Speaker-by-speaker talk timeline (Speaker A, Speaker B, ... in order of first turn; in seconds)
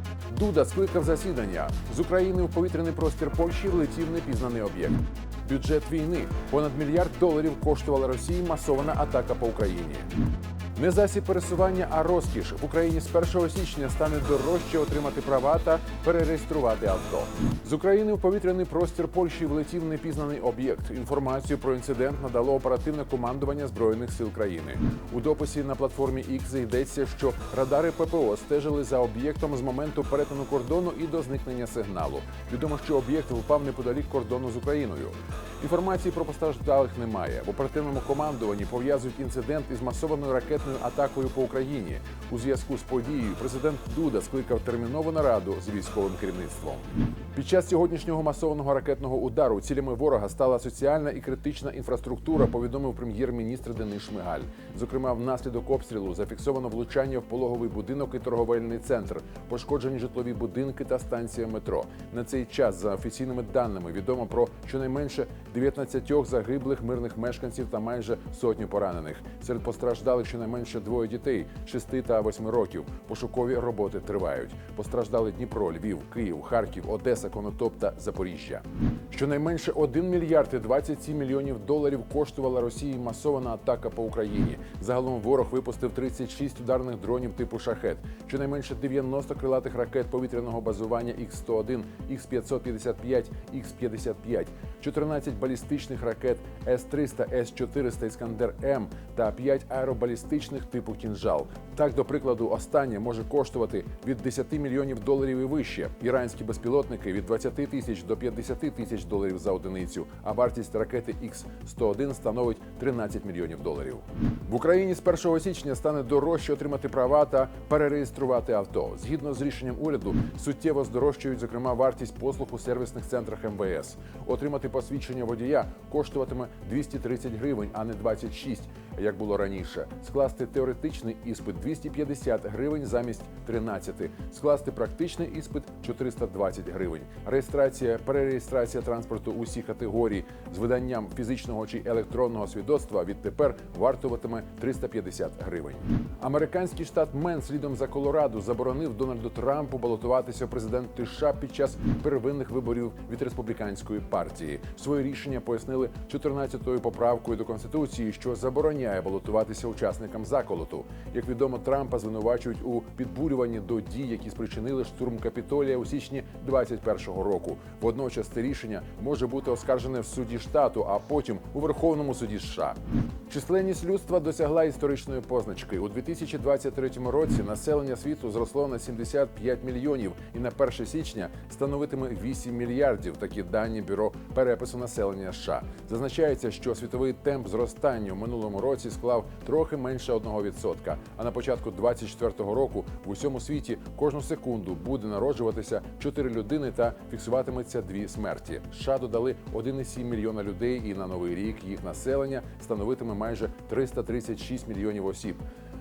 Speaker A: 0.3-10.1, 10.8-205.4